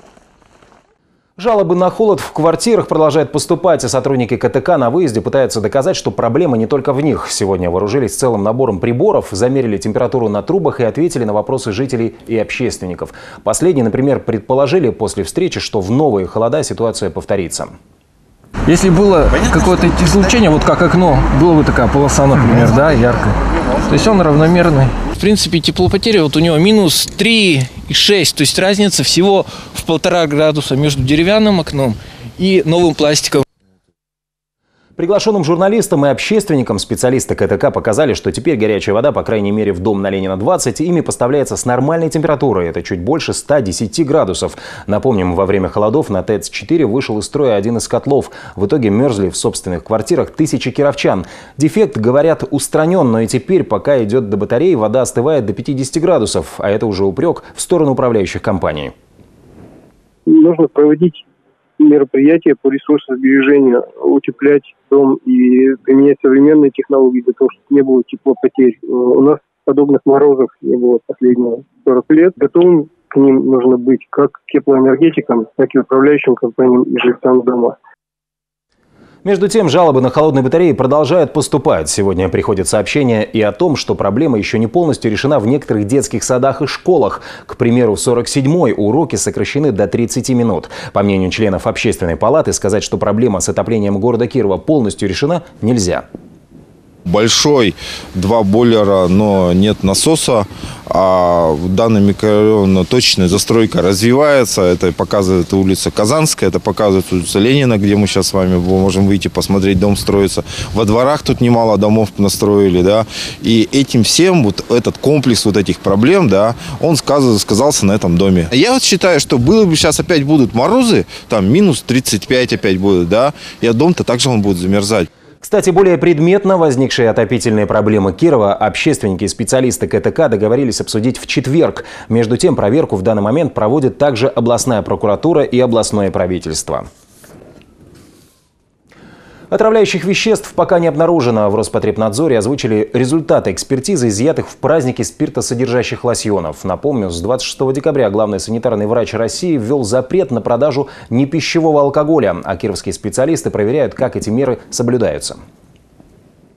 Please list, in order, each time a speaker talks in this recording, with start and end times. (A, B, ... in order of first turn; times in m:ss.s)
0:01.4-0:17.7 A
0:18.7-0:23.3 B
0:23.9-0:33.4 B
0:35.0-0:58.9 A
1:00.3-1:01.2 C
1:01.8-1:17.8 C
1:19.2-1:36.0 A
1:37.1-2:05.1 D
2:05.4-2:16.9 A
2:19.5-2:35.4 A